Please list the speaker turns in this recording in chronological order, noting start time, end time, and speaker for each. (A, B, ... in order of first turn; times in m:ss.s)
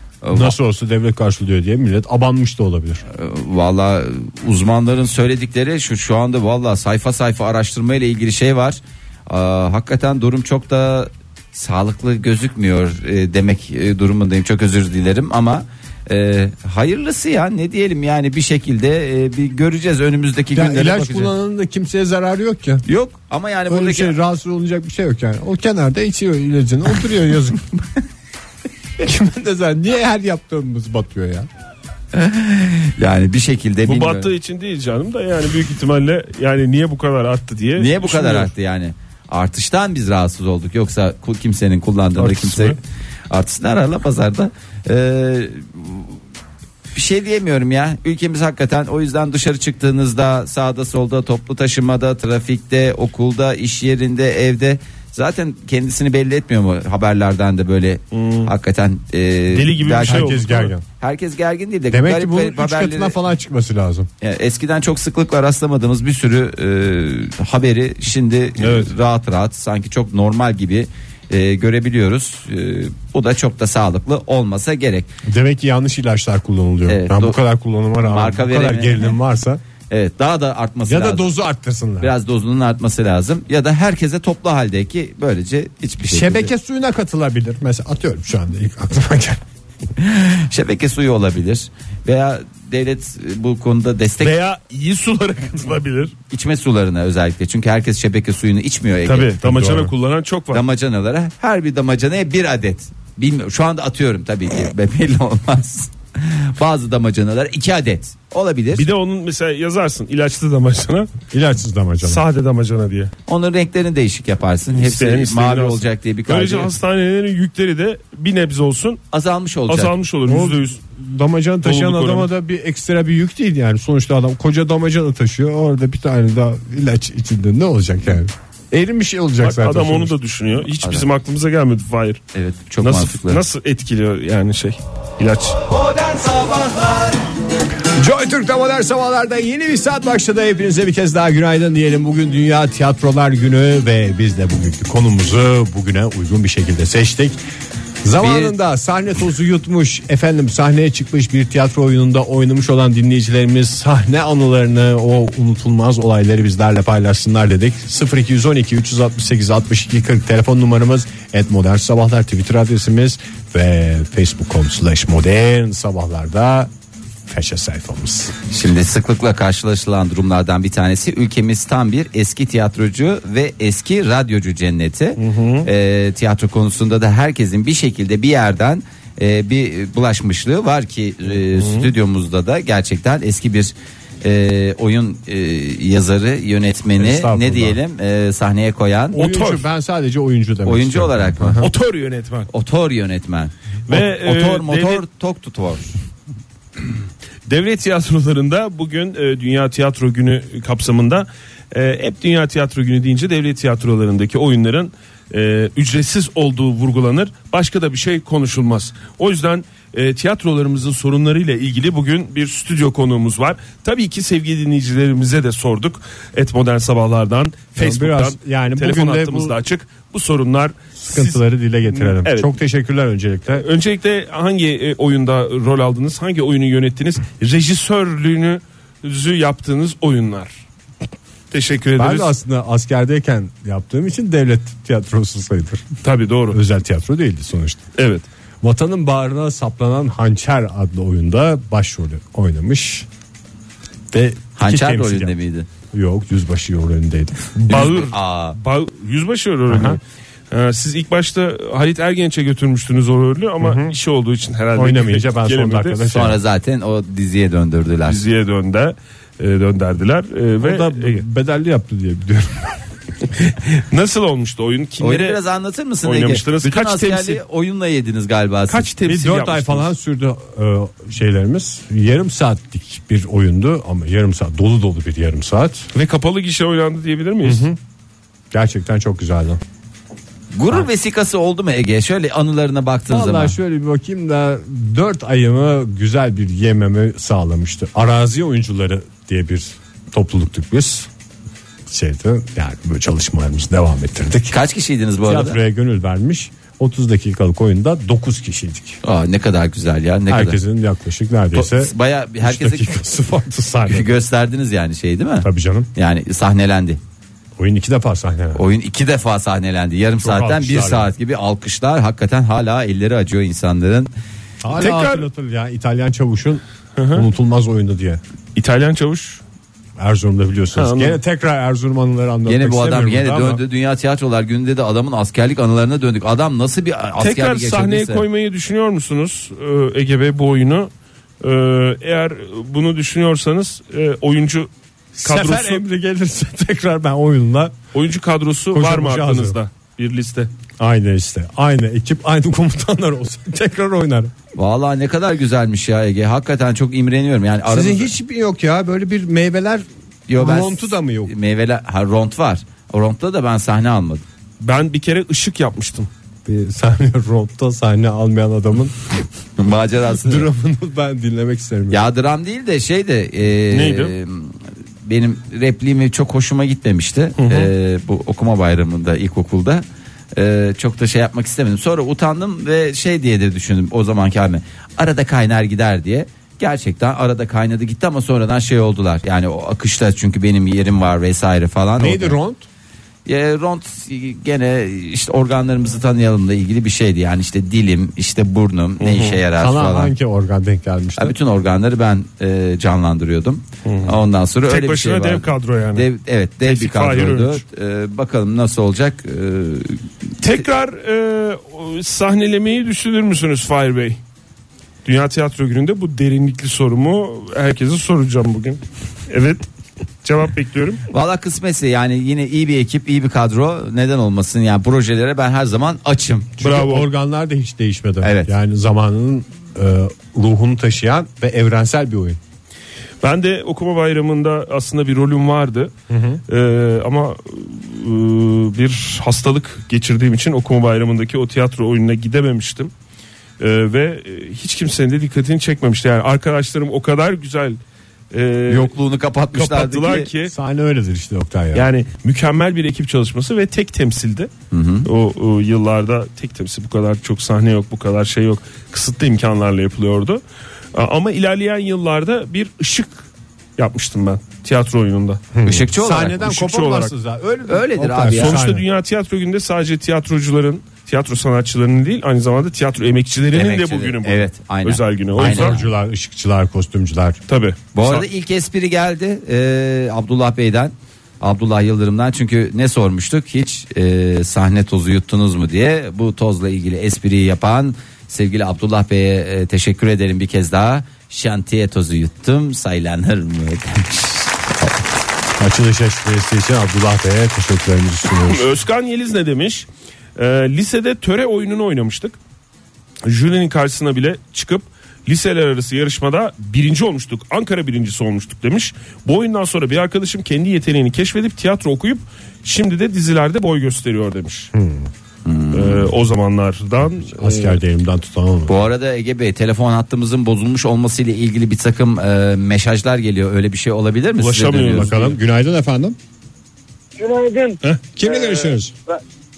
0:00.2-0:00.6 A
0:00.3-0:03.0 B
0:03.1-0:21.3 A
0:20.5-0:22.8 B
0:22.9-0:24.2 A
0:23.7-0:27.6 B
0:29.0-0:31.5 B
0:32.1-0:34.3 A
0:33.9-0:38.5 C
0:37.8-0:42.8 A
0:42.2-0:42.8 C
0:43.3-0:46.2 A
0:46.9-1:00.4 A
0:58.1-0:58.5 C
0:59.5-1:00.7 C
1:00.1-1:00.8 B
1:01.0-1:03.2 A
1:01.9-1:04.1 B
1:04.2-1:15.1 A
1:08.6-1:08.9 C
1:15.3-1:19.6 B
1:16.9-1:17.4 A
1:18.0-1:19.1 A
1:19.9-1:21.3 A
1:20.9-1:22.1 B
1:22.0-1:26.5 A
1:26.1-1:29.4 B
1:30.0-1:34.4 A
1:34.2-1:36.1 C
1:36.3-1:39.3 A
1:39.1-1:40.6 C
1:39.4-1:39.9 B
1:40.5-1:48.8 A
1:48.7-1:51.1 C
1:51.3-1:52.2 B
1:52.0-1:53.1 C
1:53.3-1:56.7 A
1:54.7-1:59.0 C
1:59.1-1:59.9 A
1:59.7-2:00.8 C
2:00.3-2:10.1 B
2:01.6-2:02.3 C
2:09.4-2:12.2 C
2:12.3-2:13.4 A
2:12.8-2:15.6 C
2:15.9-2:17.1 A
2:18.0-2:27.4 B
2:28.0-2:46.7 B
2:28.2-2:28.6 A
2:47.3-2:48.4 B
2:48.5-3:09.2 A
2:55.2-2:55.7 C
3:01.5-3:01.9 C
3:07.0-3:07.8 B
3:09.1-3:11.7 B
3:09.2-3:09.6 C
3:10.7-3:11.7 A
3:11.6-3:12.5 C
3:12.5-3:15.9 A
3:13.9-3:15.0 C
3:17.5-3:42.5 C
3:37.8-3:39.6 B
3:41.0-3:43.7 B
3:43.5-3:50.6 C
3:51.5-3:52.3 C
3:52.0-3:55.8 B
3:56.0-3:56.6 C
3:56.5-3:57.8 B
3:58.0-3:58.3 C
3:58.6-4:03.1 B
4:04.1-4:05.3 B
4:04.6-4:05.7 A
4:05.9-4:07.9 B
4:07.7-4:10.0 C
4:07.7-4:08.6 A
4:09.7-4:10.0 B
4:10.5-4:16.1 C
4:13.6-4:14.0 B
4:14.8-4:16.4 B
4:16.1-4:18.2 A
4:18.1-4:21.2 C
4:20.6-4:22.7 B
4:23.7-4:25.4 C
4:25.0-4:28.9 A
4:26.0-4:27.4 C
4:28.7-4:29.9 C
4:29.0-4:35.9 B
4:35.9-4:37.7 C
4:37.4-4:37.8 B
4:38.5-4:39.6 B
4:40.5-4:43.6 A
4:43.1-4:51.1 B
4:51.9-4:54.6 B
4:54.5-4:55.6 A
4:55.2-4:59.0 B
4:59.0-5:00.6 A
5:00.3-5:04.2 B
5:01.5-5:02.9 A
5:03.9-5:07.0 A
5:05.4-5:05.9 B
5:07.6-5:08.6 B
5:08.6-5:14.1 A
5:10.2-5:11.1 B
5:14.6-5:18.2 B
5:14.8-5:15.3 C
5:17.0-5:17.3 C
5:18.6-5:19.4 C
5:20.0-5:23.6 B
5:20.8-5:21.2 C
5:22.5-5:28.2 A
5:27.2-5:30.9 C
5:31.4-5:35.8 C
5:35.2-5:37.8 B
5:37.9-5:40.5 C
5:38.7-5:39.6 B
5:40.8-5:44.3 B
5:44.6-5:48.1 A
5:47.7-5:49.8 B
5:50.3-5:54.2 A
5:50.4-5:51.3 B
5:54.6-5:56.1 C
5:56.5-5:59.0 B
5:59.6-6:00.5 A
6:00.2-6:02.0 B
6:01.9-6:22.4 A
6:03.7-6:04.1 C
6:07.4-6:07.7 C
6:22.0-6:22.6 B
6:23.3-6:30.1 A
6:29.0-6:29.4 C
6:29.6-6:31.4 B
6:31.2-6:40.0 A
6:33.8-6:36.1 C
6:36.6-6:37.6 C
6:40.4-6:44.2 C
6:45.0-6:49.7 C
6:50.2-6:51.0 C
6:51.1-6:56.6 A
6:56.6-7:02.4 B
6:56.6-6:57.1 C
6:58.2-6:58.5 A
7:03.2-7:05.9 C
7:06.1-7:06.4 B
7:06.5-7:12.9 C
7:13.6-7:17.8 C
7:18.3-7:18.9 C
7:18.7-7:20.3 A
7:19.5-7:20.5 C
7:20.4-7:21.9 B
7:21.7-7:24.5 C
7:24.7-7:25.1 A
7:25.0-7:30.4 C
7:30.9-7:35.4 C
7:35.5-7:38.8 B
7:35.6-7:36.5 A
7:36.4-7:37.1 C
7:37.7-7:38.6 A
7:38.3-7:45.8 C
7:43.5-7:45.8 A
7:45.4-7:47.4 B
7:47.5-7:48.3 C
7:48.0-8:04.9 A
8:05.6-8:08.7 B
8:08.3-8:12.4 C
8:13.2-8:24.7 C
8:24.7-8:25.1 B
8:25.4-8:26.1 A
8:25.7-8:27.8 C
8:27.3-8:28.9 B
8:28.7-8:35.1 A
8:34.4-8:35.4 C
8:34.9-8:36.2 B
8:37.2-8:39.2 D
8:38.2-8:38.9 B